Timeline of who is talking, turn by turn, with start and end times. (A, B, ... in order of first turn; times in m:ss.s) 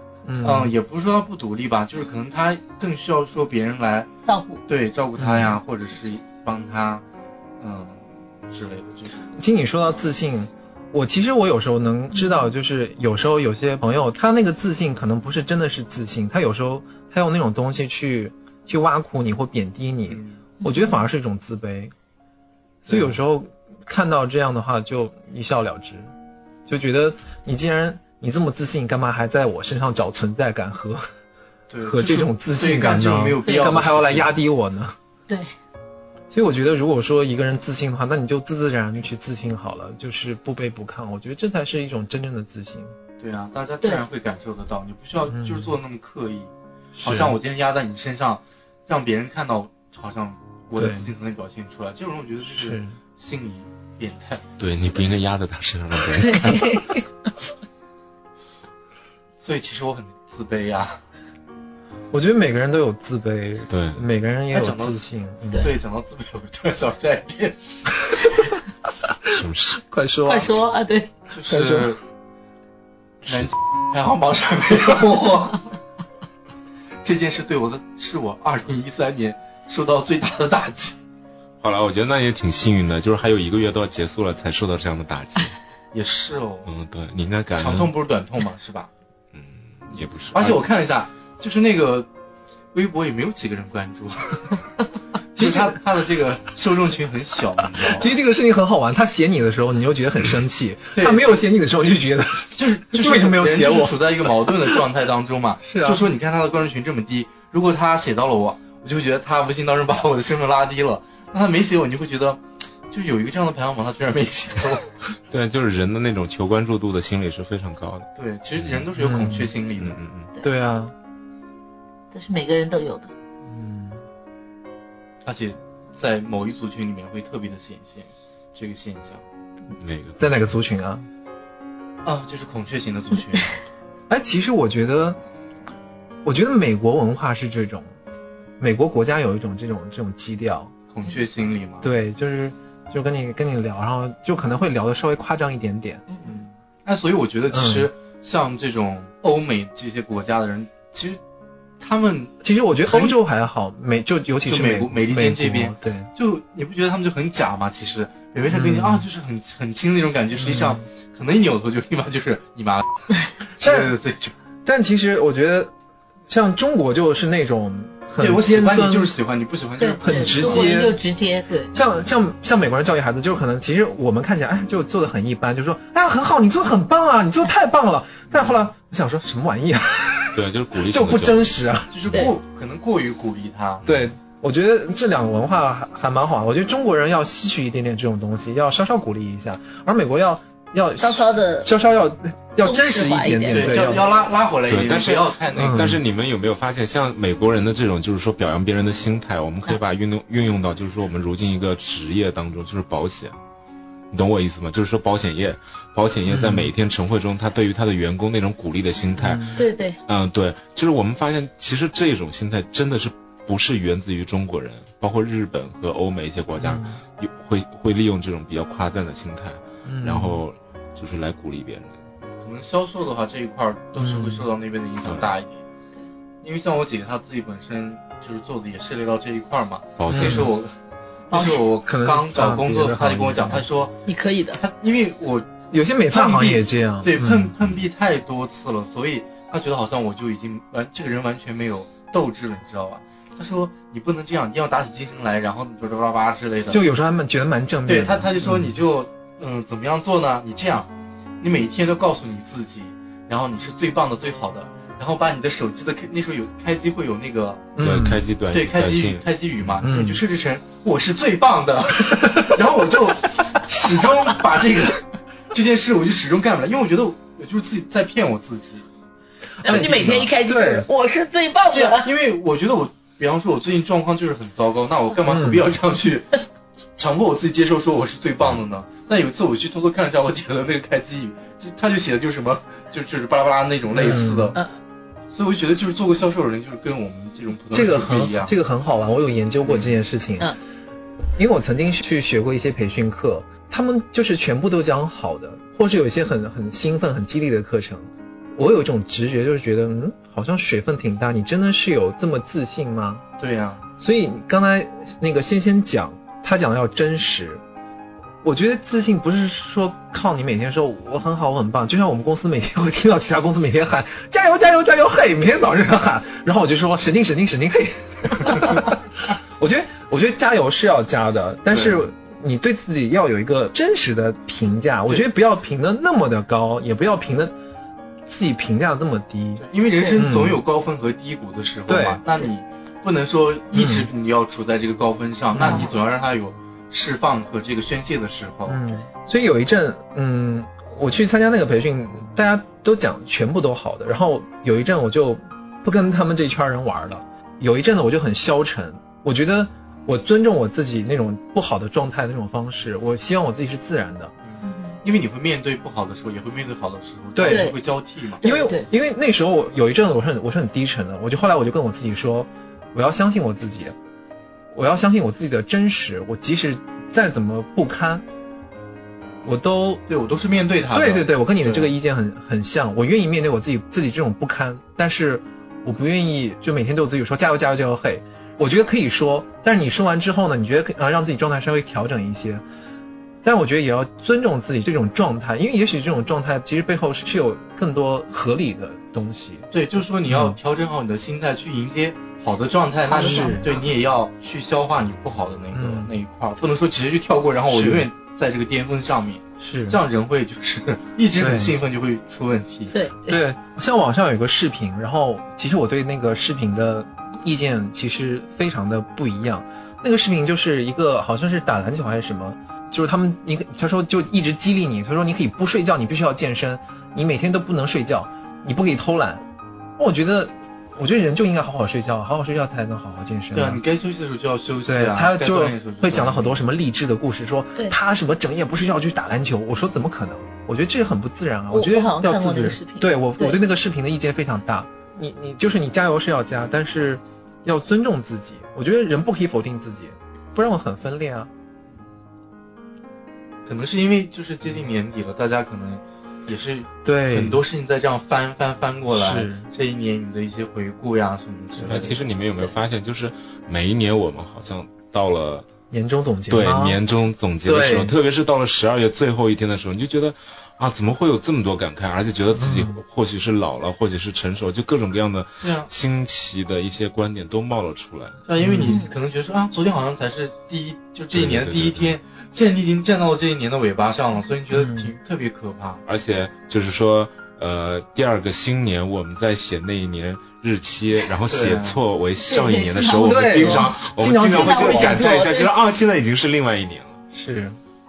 0:00.2-0:00.7 A
0:00.4-0:04.1 B
0:04.2-0:04.6 C
0:04.7-0:07.0 B
0:05.2-0:05.6 A
0:07.6-0:09.3 B
0:09.3-0:21.9 A
0:20.1-0:20.4 B
0:20.6-0:21.0 C
0:22.9-0:26.1 A
0:22.9-0:23.2 B
0:26.7-0:31.0 A
0:31.7-0:34.3 B
0:31.8-0:35.0 A
0:33.5-0:33.7 C
0:36.3-0:42.9 A
0:43.2-0:46.5 B
0:45.3-0:45.7 A
0:47.0-0:47.3 A
0:47.0-0:54.4 B
0:50.8-0:51.1 A
0:52.5-0:53.0 A
0:54.6-0:56.8 D
0:56.1-0:57.1 C
0:59.4-1:01.0 B
1:02.1-1:05.7 A
1:03.7-1:04.0 D
1:04.5-1:05.0 B
1:05.6-1:07.8 B
1:09.3-1:09.8 D
1:09.7-1:10.5 A
1:10.3-1:11.1 C
1:11.3-1:12.0 B
1:11.5-1:11.9 A
1:13.3-1:13.5 D
1:13.3-1:15.6 B
1:17.0-1:21.0 B
1:21.6-1:25.6 D
1:25.9-1:26.7 B
1:26.7-1:27.9 D
1:27.6-1:28.9 B
1:29.3-1:30.6 D
1:30.3-1:32.1 B
1:32.7-1:34.6 B
1:35.4-1:35.8 A
1:35.4-1:38.1 B
1:37.9-1:44.5 A
1:40.9-1:41.4 B
1:42.5-1:54.9 B
1:45.6-1:46.0 A
1:55.3-1:58.8 D
1:58.2-2:00.0 B
1:59.0-1:59.5 A
1:59.8-2:00.3 D
2:00.4-2:00.9 A
2:02.1-2:03.1 C
2:03.5-2:04.0 A
2:05.2-2:09.2 B
2:09.8-2:10.3 D
2:10.2-2:11.1 A
2:12.0-2:13.6 B
2:14.1-2:15.2 A
2:16.2-2:17.9 A
2:18.6-2:20.7 A
2:20.9-2:21.9 B
2:21.8-2:26.1 A
2:26.1-2:26.4 C
2:26.3-2:31.2 B
2:27.5-2:27.9 A
2:31.8-2:33.2 B
2:32.4-2:36.1 A
2:34.5-2:44.4 B
2:38.5-2:39.1 A
2:40.4-2:40.9 A
2:43.6-2:43.9 A
2:44.6-2:45.7 A
2:46.3-2:49.1 A
2:48.2-2:50.8 B
2:49.8-2:51.7 C
2:50.0-2:51.0 A
2:51.7-3:01.9 A
3:00.3-3:01.5 D
3:01.9-3:03.9 B
3:03.9-3:14.1 A
3:11.0-3:11.7 C
3:12.6-3:14.0 C
3:13.5-3:16.0 B
3:14.7-3:23.4 D
3:15.6-3:16.0 A
3:24.1-3:42.0 D
3:26.3-3:26.7 A
3:29.2-3:29.6 A
3:29.6-3:30.0 C
3:36.6-3:37.0 A
3:39.8-3:40.4 A
3:42.4-3:45.6 B
3:44.0-3:44.4 A
3:45.0-3:45.3 D
3:46.4-3:50.7 B
3:50.0-3:50.5 D
3:50.1-3:50.5 A
3:51.3-3:54.0 B
3:51.3-3:51.6 C
3:51.8-3:53.6 A
3:54.1-3:54.6 C
3:54.6-3:55.5 B
3:55.7-3:57.5 A
3:56.1-4:06.8 B
4:06.7-4:08.8 A
4:07.9-4:17.7 B
4:17.8-4:18.3 A
4:17.8-4:19.2 D
4:18.5-4:28.9 B
4:19.8-4:20.2 A
4:29.6-4:30.9 A
4:29.6-4:32.1 C
4:29.7-4:30.2 B
4:31.7-4:36.4 B
4:35.3-4:35.7 A
4:37.0-4:44.6 B
4:43.9-4:44.6 A
4:45.3-4:48.5 B
4:47.7-4:50.6 A
4:49.7-4:49.9 B
4:51.4-5:03.2 A
5:03.4-5:03.8 B
5:04.0-5:07.6 A
5:08.4-5:27.6 A
5:21.7-5:22.1 B
5:28.3-5:29.6 A
5:29.6-5:38.8 B
5:30.2-5:30.6 A
5:31.9-5:32.2 A
5:33.7-5:34.1 A
5:35.5-5:35.9 A
5:35.6-5:35.9 C
5:38.7-5:54.3 A
5:54.4-5:58.4 B
5:54.6-5:55.0 C
5:57.4-5:57.7 A
5:57.4-5:57.8 C
5:58.4-5:58.9 C
5:58.4-6:04.0 A
6:04.7-6:08.2 A
6:09.4-6:10.0 A
6:10.1-6:11.9 B
6:10.9-6:22.6 A
6:23.4-6:29.7 A
6:29.7-6:43.0 B
6:30.3-6:30.6 A
6:33.1-6:33.8 C
6:33.1-6:33.7 A
6:35.7-6:36.1 A
6:37.7-6:38.1 A
6:39.6-6:40.0 A
6:41.4-6:41.7 A
6:42.9-6:43.4 C
6:43.3-6:59.4 A
7:00.0-7:03.8 A
7:03.5-7:06.6 B
7:04.9-7:21.5 A
7:11.7-7:13.6 C
7:23.7-7:32.2 B
7:27.0-7:27.6 A
7:29.1-7:29.7 A
7:31.8-7:35.7 D
7:35.9-7:37.0 A
7:36.5-7:48.4 D
7:37.6-7:38.2 A
7:42.6-7:43.0 A
7:45.6-7:45.9 B
7:48.5-7:56.0 B
7:48.6-7:49.0 A
7:48.9-7:49.1 C
7:51.3-7:52.2 D
7:54.7-7:55.1 A
7:56.1-8:07.2 D
8:01.5-8:02.0 B
8:02.4-8:03.9 C
8:03.2-8:05.4 A
8:04.5-8:05.7 C
8:07.3-8:07.8 A